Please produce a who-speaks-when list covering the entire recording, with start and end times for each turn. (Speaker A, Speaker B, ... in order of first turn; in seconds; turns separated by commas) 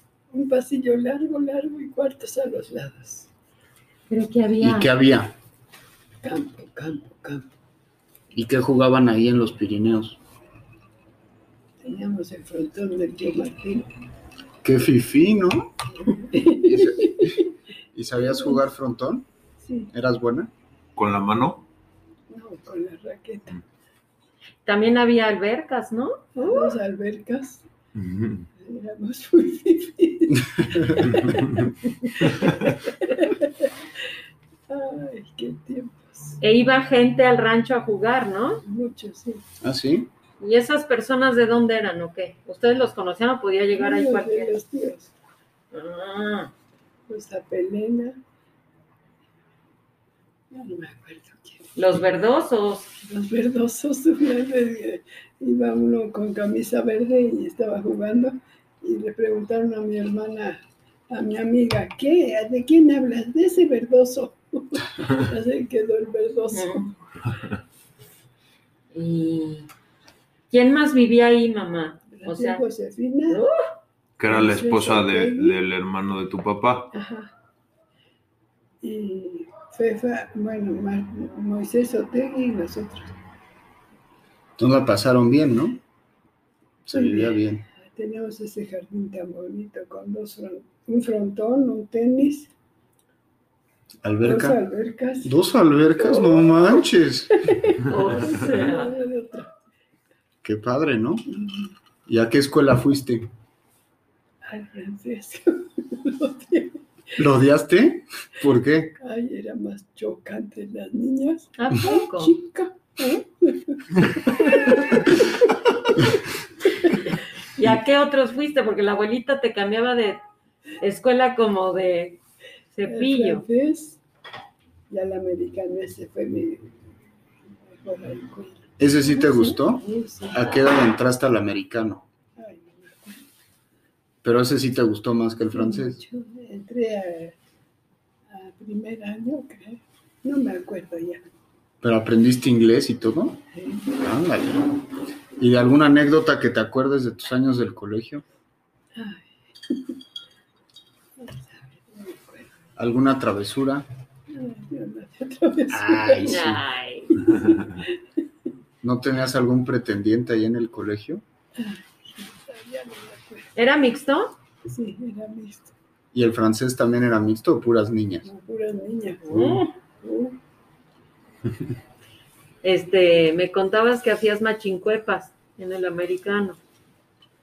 Speaker A: 0.3-3.3, Speaker B: 4.1-4.9, Speaker C: 4.6-5.3, Speaker A: 6.2-7.5, Speaker C: 8.3-10.2, Speaker A: 11.8-13.9, Speaker C: 14.6-15.7, Speaker A: 16.0-17.5, Speaker C: 16.6-19.3, Speaker A: 18.2-18.6, Speaker A: 19.6-19.9, Speaker C: 19.9-20.5, Speaker D: 20.9-21.6, Speaker A: 22.3-23.6, Speaker B: 24.6-26.8, Speaker A: 26.4-27.6, Speaker D: 27.9-28.5, Speaker A: 28.6-33.7, Speaker C: 30.6-31.0, Speaker D: 31.1-31.5, Speaker A: 34.7-36.4, Speaker B: 36.4-38.6, Speaker A: 38.6-39.4, Speaker C: 39.6-40.1, Speaker B: 40.4-44.5, Speaker A: 43.7-45.1, Speaker B: 45.7-46.5, Speaker A: 47.1-48.2, Speaker A: 50.5-51.7, Speaker B: 51.8-52.9, Speaker A: 53.0-66.9, Speaker B: 66.5-66.9, Speaker B: 68.9-69.7, Speaker B: 70.5-72.6, Speaker A: 72.1-73.4, Speaker B: 73.3-73.6, Speaker D: 74.2-76.9, Speaker A: 74.3-75.5, Speaker A: 76.9-77.3, Speaker A: 78.8-83.1, Speaker C: 84.6-85.8, Speaker C: 86.8-87.6, Speaker A: 86.9-92.5, Speaker C: 94.0-94.6, Speaker A: 94.2-95.3, Speaker C: 95.2-97.5, Speaker A: 96.0-96.9, Speaker A: 97.4-99.5, Speaker B: 97.8-99.0, Speaker C: 100.4-101.2, Speaker A: 101.3-101.7, Speaker C: 102.0-103.3, Speaker A: 104.4-106.8, Speaker C: 107.2-108.9, Speaker A: 109.0-117.0, Speaker B: 111.6-112.3, Speaker B: 117.5-120.2, Speaker B: 120.8-122.2, Speaker B: 122.7-123.4, Speaker A: 122.9-124.0, Speaker A: 124.9-126.7, Speaker A: 127.5-128.7, Speaker C: 128.8-132.0, Speaker B: 129.1-129.6, Speaker A: 129.7-130.5, Speaker A: 132.4-133.2, Speaker C: 134.2-136.0, Speaker A: 135.5-137.4, Speaker A: 138.3-141.2, Speaker C: 141.8-148.2, Speaker A: 143.5-143.9, Speaker A: 148.9-149.9, Speaker A: 151.2-152.5, Speaker C: 152.8-153.9, Speaker A: 154.3-156.5, Speaker C: 155.7-156.6, Speaker B: 156.3-157.2, Speaker A: 157.2-157.9, Speaker C: 158.8-161.2, Speaker A: 161.5-163.5, Speaker B: 163.6-164.3, Speaker A: 164.6-165.7, Speaker C: 166.1-168.3, Speaker A: 168.2-169.4, Speaker B: 169.2-169.7, Speaker C: 169.3-169.6, Speaker A: 170.0-170.4, Speaker B: 172.6-176.6